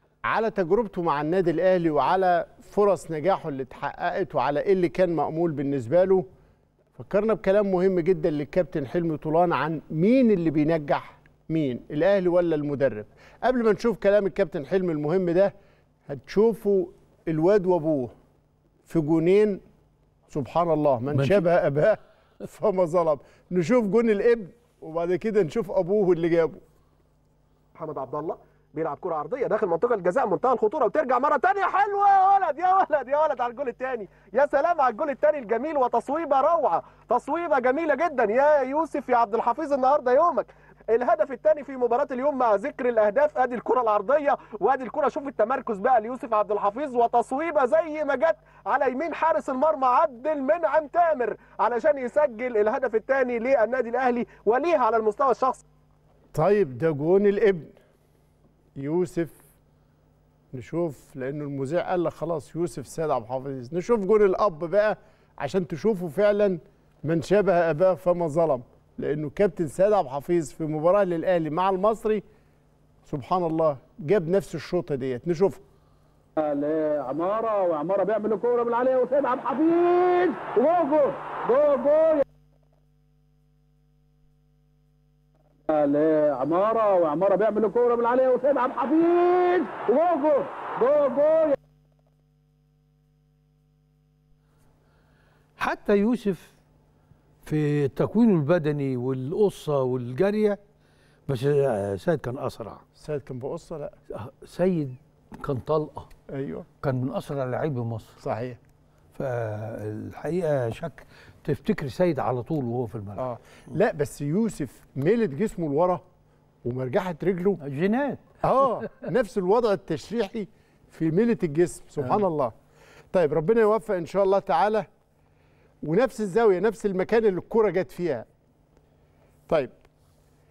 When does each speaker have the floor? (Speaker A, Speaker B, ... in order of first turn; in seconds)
Speaker A: 0.2-6.2, 6.9-15.5, 16.1-18.1, 18.9-19.6, 20.3-26.6, 56.3-57.7, 58.8-59.4, 60.5-72.2, 73.0-75.6, 103.0-104.0, 106.3-106.7, 108.2-108.6, 113.2-116.0, 116.6-117.6, 118.4-122.5, 123.1-124.9, 125.8-128.2, 129.5-129.7
Speaker B: 21.1-21.5, 95.6-96.5, 97.4-100.6, 101.3-102.8, 104.1-106.1, 106.8-108.2, 109.1-113.2, 117.6-119.0
Speaker C: 27.8-55.6
Speaker D: 76.4-82.2, 85.7-91.6